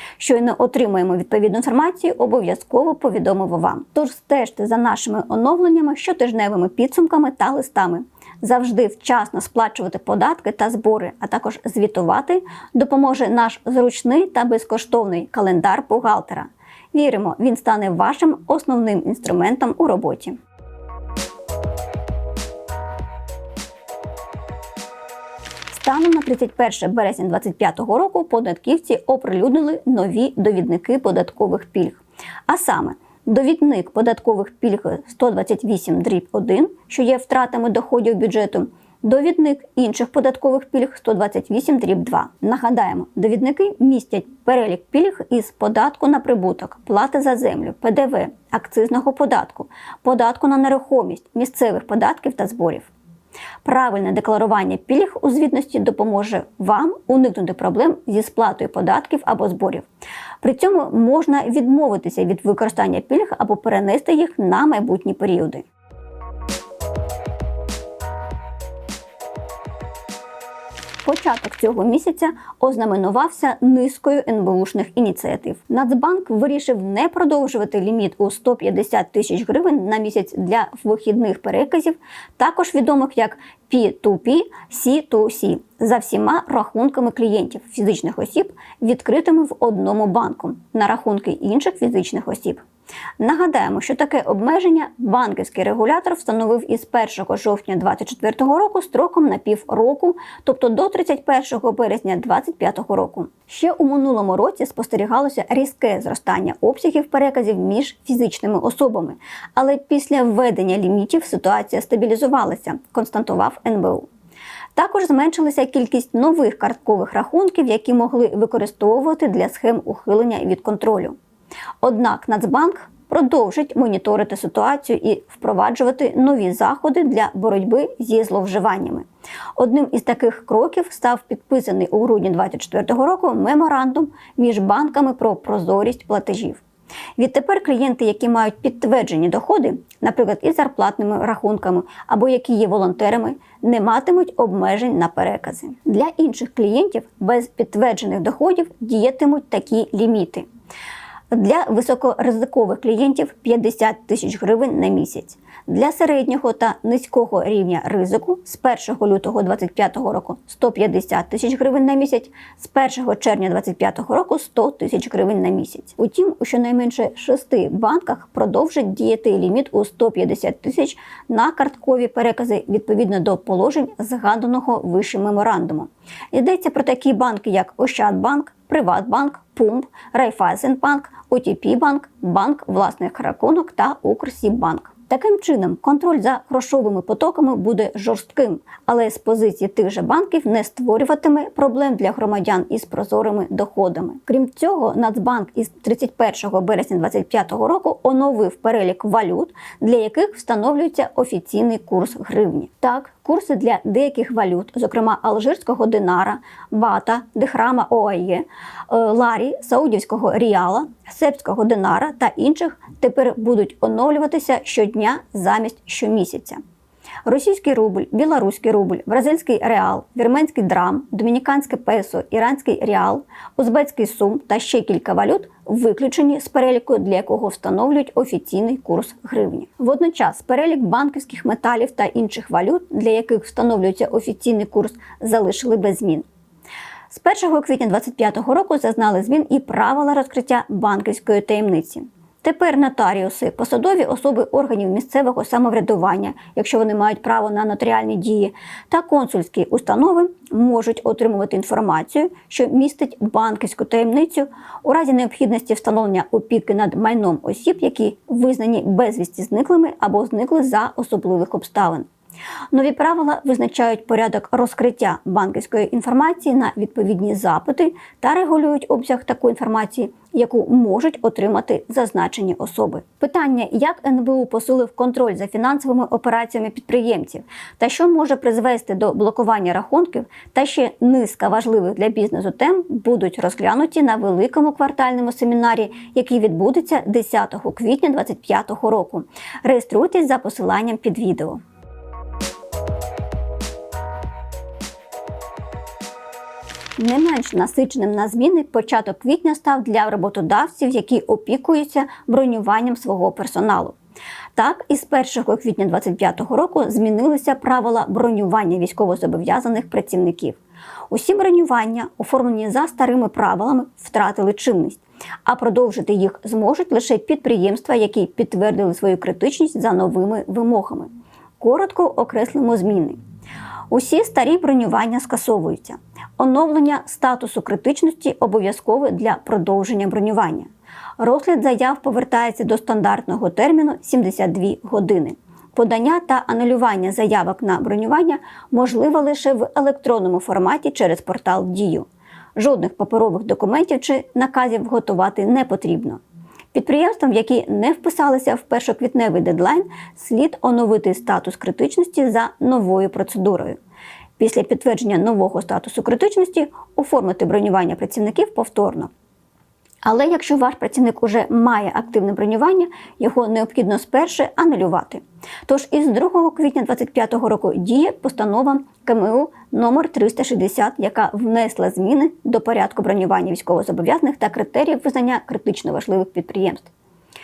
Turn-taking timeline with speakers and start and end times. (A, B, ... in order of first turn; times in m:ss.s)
0:00.2-0:20.4 A
0:25.7-0:52.9 A
0:53.6-0:59.9 A
1:00.4-1:05.6 A
1:11.0-1:32.6 A
1:33.2-1:54.1 A
1:54.8-2:01.2 A
2:01.8-2:16.6 A
2:17.2-2:30.5 A
2:31.3-3:36.6 A
3:37.3-3:56.3 A
3:57.1-4:22.1 A
4:22.7-4:51.6 A
4:57.0-5:04.0 A
5:04.6-5:10.6 A
5:11.1-5:23.2 A
5:23.9-5:46.2 A
5:46.7-5:53.8 A
5:54.4-5:59.1 A
6:00.0-6:16.9 A